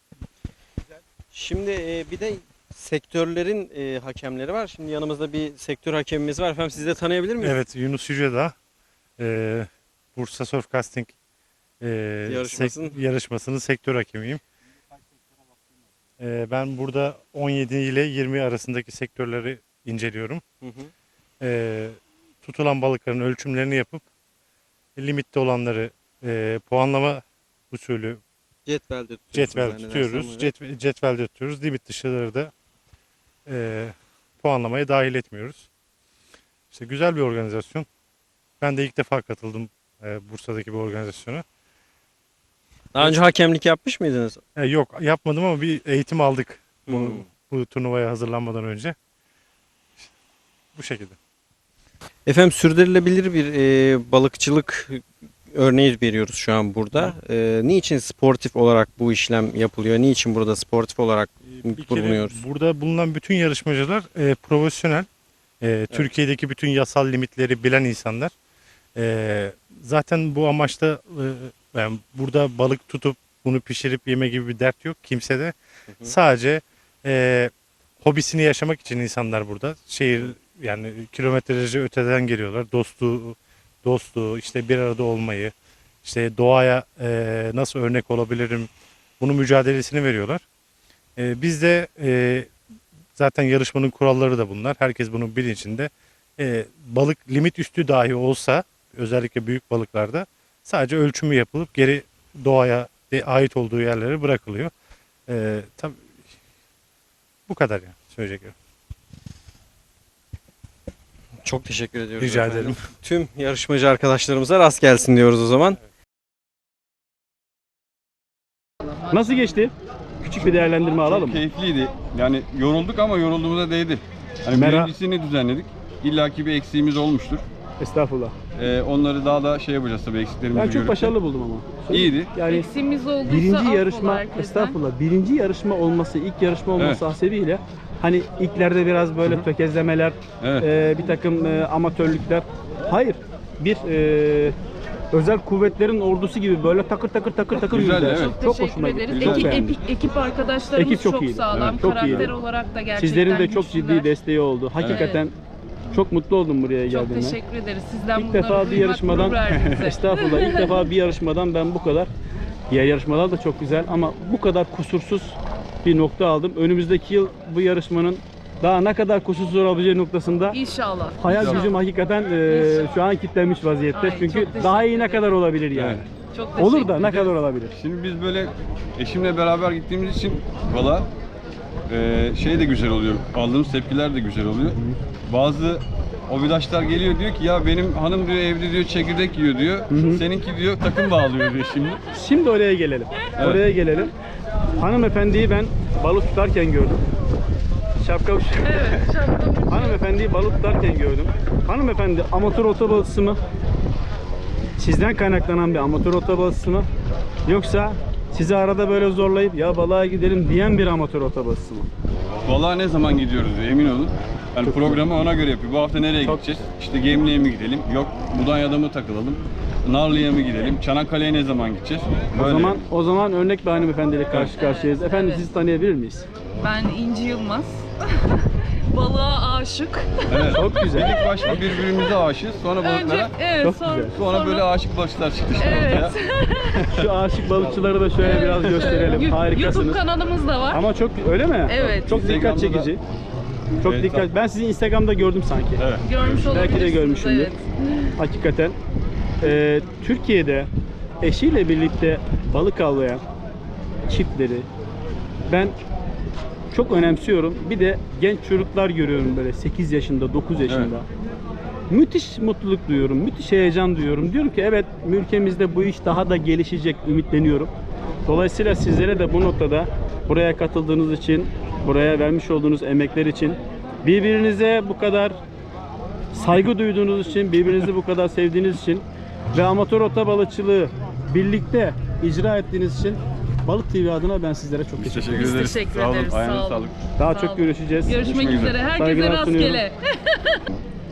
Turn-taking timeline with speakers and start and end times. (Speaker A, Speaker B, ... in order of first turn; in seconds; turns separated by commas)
Speaker A: 1.3-7.6, Speaker B: 7.4-8.5, Speaker B: 9.2-11.1, Speaker B: 11.8-14.4, Speaker A: 12.3-13.0, Speaker B: 16.2-20.4, Speaker A: 20.6-20.9, Speaker B: 21.4-24.0, Speaker B: 24.9-28.2, Speaker A: 28.6-30.5, Speaker B: 29.3-32.5, Speaker B: 33.5-35.7, Speaker B: 36.7-37.9, Speaker B: 38.6-41.4, Speaker A: 42.9-44.4, Speaker B: 43.0-43.2, Speaker B: 44.5-49.0, Speaker A: 46.9-47.2, Speaker B: 50.7-51.1, Speaker A: 52.2-62.4, Speaker B: 61.4-65.1, Speaker B: 65.6-68.3, Speaker B: 69.0-85.5, Speaker B: 86.0-90.4, Speaker B: 91.2-92.5, Speaker B: 93.2-104.7, Speaker B: 105.3-106.0, Speaker B: 107.5-108.5, Speaker A: 111.4-115.8, Speaker B: 112.2-112.9, Speaker C: 119.1-119.7, Speaker D: 120.2-127.4, Speaker C: 120.2-121.4, Speaker C: 124.5-124.9, Speaker C: 127.8-128.4, Speaker D: 128.6-131.1, Speaker C: 130.5-132.7, Speaker D: 131.9-132.4, Speaker E: 132.4-134.8, Speaker C: 133.2-144.6, Speaker D: 136.8-137.0, Speaker D: 140.4-140.7, Speaker C: 145.1-149.8, Speaker D: 147.6-148.4, Speaker E: 148.1-154.1, Speaker D: 149.0-149.7, Speaker C: 150.7-152.3, Speaker D: 151.5-152.3, Speaker C: 152.9-155.3, Speaker D: 154.8-155.2, Speaker E: 154.9-155.2, Speaker C: 155.9-157.4, Speaker E: 156.9-160.7, Speaker C: 158.1-162.1, Speaker D: 159.5-159.9, Speaker C: 162.7-170.6, Speaker E: 170.5-171.7, Speaker C: 171.2-176.0, Speaker D: 171.3-171.8, Speaker E: 172.5-172.9, Speaker E: 173.9-175.3, Speaker D: 175.7-176.0, Speaker E: 176.3-176.9, Speaker C: 176.6-177.7, Speaker D: 176.9-181.1, Speaker D: 181.9-192.0, Speaker C: 189.9-190.2, Speaker C: 192.1-194.1, Speaker D: 193.4-193.6, Speaker C: 194.8-197.0, Speaker C: 198.0-199.0, Speaker E: 198.6-200.0, Speaker C: 199.7-203.4, Speaker C: 204.8-206.9, Speaker C: 207.4-211.9, Speaker D: 212.4-222.8, Speaker C: 214.6-215.1, Speaker C: 216.2-216.6, Speaker C: 222.3-226.3, Speaker D: 224.3-224.6, Speaker E: 224.3-225.5, Speaker E: 226.6-230.4, Speaker D: 230.3-233.3, Speaker C: 230.5-231.5, Speaker E: 232.8-234.7, Speaker C: 233.6-234.1, Speaker D: 234.1-236.1, Speaker E: 235.6-236.7, Speaker D: 237.0-237.7, Speaker C: 237.0-240.0, Speaker E: 238.2-240.8, Speaker C: 240.7-243.0, Speaker E: 241.7-242.3, Speaker D: 242.1-242.9, Speaker C: 243.8-245.8, Speaker D: 243.8-244.3, Speaker D: 245.8-246.9, Speaker E: 246.0-248.1, Speaker C: 246.4-247.5, Speaker C: 248.2-248.8, Speaker C: 249.4-250.7, Speaker C: 251.2-253.2, Speaker C: 254.1-254.7, Speaker C: 255.5-255.7, Speaker C: 256.7-261.1, Speaker D: 260.6-260.9, Speaker C: 261.9-267.7, Speaker C: 268.3-275.4, Speaker C: 276.3-285.5, Speaker D: 285.0-287.0, Speaker E: 285.3-290.6, Speaker C: 287.2-288.3, Speaker D: 288.2-288.8, Speaker C: 288.9-289.8